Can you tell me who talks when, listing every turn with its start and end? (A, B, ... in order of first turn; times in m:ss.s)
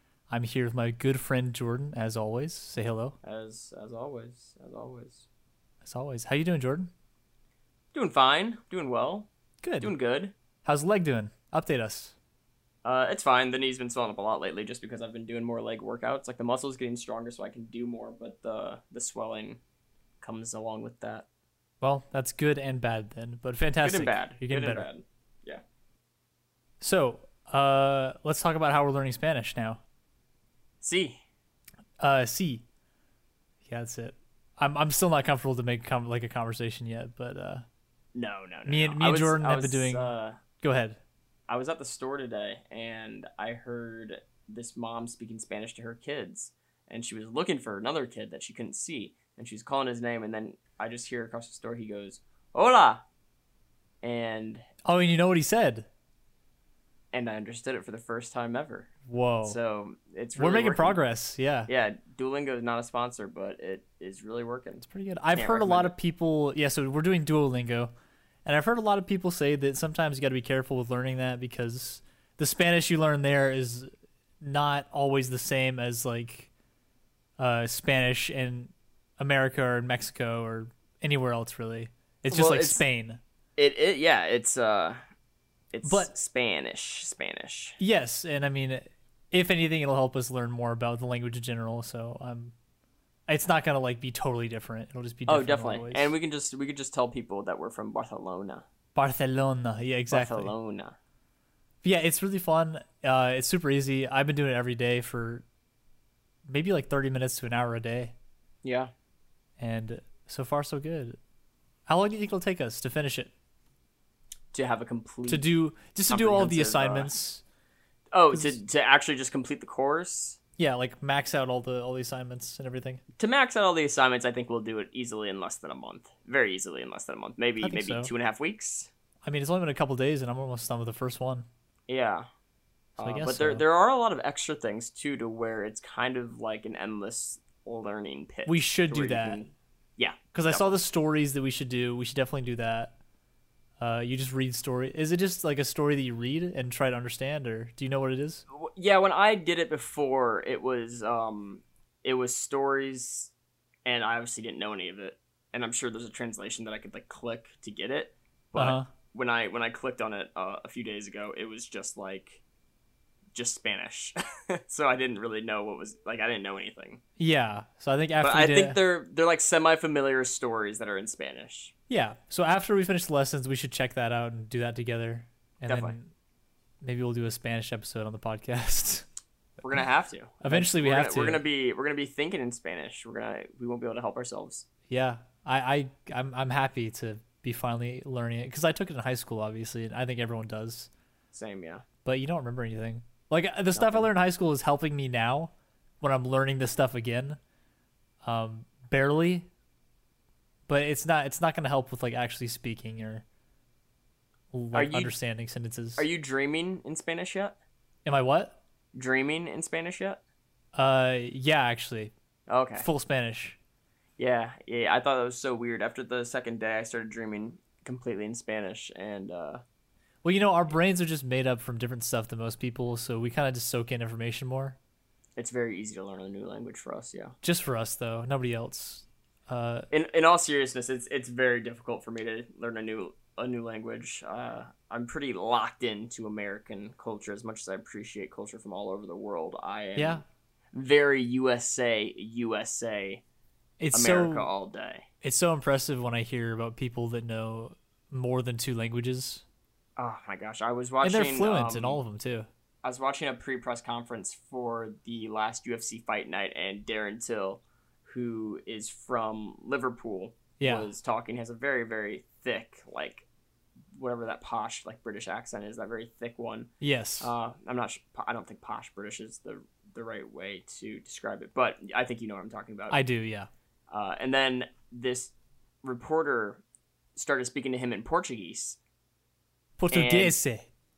0:00.3-0:03.2 A
0:03.2-0:05.2 B
0:05.8-0:06.9 A
0:07.9-0:09.3 B
0:09.6-0:09.9 A
0:09.8-0:10.3 B
0:10.6-0:12.1 A
0:12.8-0:19.6 B
0:20.2-0:21.2 B
0:21.8-0:24.9 A
0:23.8-0:25.6 B
0:26.8-0:29.8 A
0:30.8-0:31.2 B
0:32.0-0:32.6 A
0:33.6-0:37.6 A
0:38.1-0:40.4 B
0:38.6-0:41.0 A
0:41.5-0:53.0 B
0:54.0-0:54.6 B
0:54.8-0:55.9 A
0:57.1-0:58.9 B
0:59.0-0:59.6 A
0:59.4-1:01.0 B
1:00.4-1:01.7 A
1:01.7-1:05.9 B
1:04.8-1:07.9 A
1:08.4-1:16.5 A
1:17.4-1:23.2 A
1:22.3-1:22.8 B
1:23.6-1:25.0 B
1:25.7-1:27.8 B
1:25.8-1:26.1 A
1:27.8-1:32.5 A
1:33.3-1:36.1 A
1:35.3-1:38.6 B
1:38.9-1:40.5 A
1:40.1-1:41.0 B
1:41.8-1:45.4 A
1:46.5-1:48.1 A
1:48.6-1:48.9 B
1:49.6-1:51.2 A
1:51.9-1:53.3 A
1:54.5-1:55.5 B
1:55.3-1:57.4 A
1:56.1-1:57.1 B
1:58.1-2:00.4 B
1:58.3-1:58.6 A
2:00.6-2:03.0 A
2:03.2-2:08.9 B
2:07.6-2:08.1 A
2:09.2-2:11.5 A
2:11.9-2:12.3 B
2:13.0-2:20.8 B
2:13.0-2:13.6 A
2:18.4-2:19.4 A
2:20.3-2:23.0 A
2:23.8-2:28.4 A
2:28.5-2:33.3 B
2:33.8-2:42.4 B
2:38.5-2:38.9 A
2:43.3-2:47.0 B
2:47.2-2:48.8 A
2:48.2-2:51.7 B
2:51.9-2:56.1 A
2:55.6-2:56.0 B
2:56.8-2:59.0 A
2:59.6-3:04.7 B
3:00.4-3:01.4 A
3:04.9-3:10.9 A
3:11.3-3:11.8 B
3:12.0-3:17.4 A
3:13.7-3:14.1 B
3:18.2-3:19.5 A
3:20.7-3:23.2 A
3:24.5-3:26.0 A
3:24.7-3:25.1 B
3:26.0-3:27.6 B
3:28.0-3:28.6 A
3:28.9-3:30.2 B
3:30.7-3:32.1 A
3:32.5-3:32.9 B
3:32.8-3:33.6 A
3:34.2-3:39.6 B
3:40.2-3:44.8 A
3:45.4-3:47.3 B
3:47.4-3:49.9 A
3:49.9-4:03.2 B
4:00.0-4:00.2 A
4:03.8-4:04.5 A
4:03.9-4:05.1 B
4:05.2-4:09.4 A
4:10.0-4:12.0 B
4:11.0-4:12.5 A
4:12.8-4:23.2 B
4:20.6-4:20.9 A
4:23.9-4:33.0 B
4:26.8-4:27.3 A
4:32.9-4:33.5 A
4:33.9-4:36.6 B
4:37.2-4:38.8 B
4:39.8-4:40.7 A
4:39.9-4:40.4 B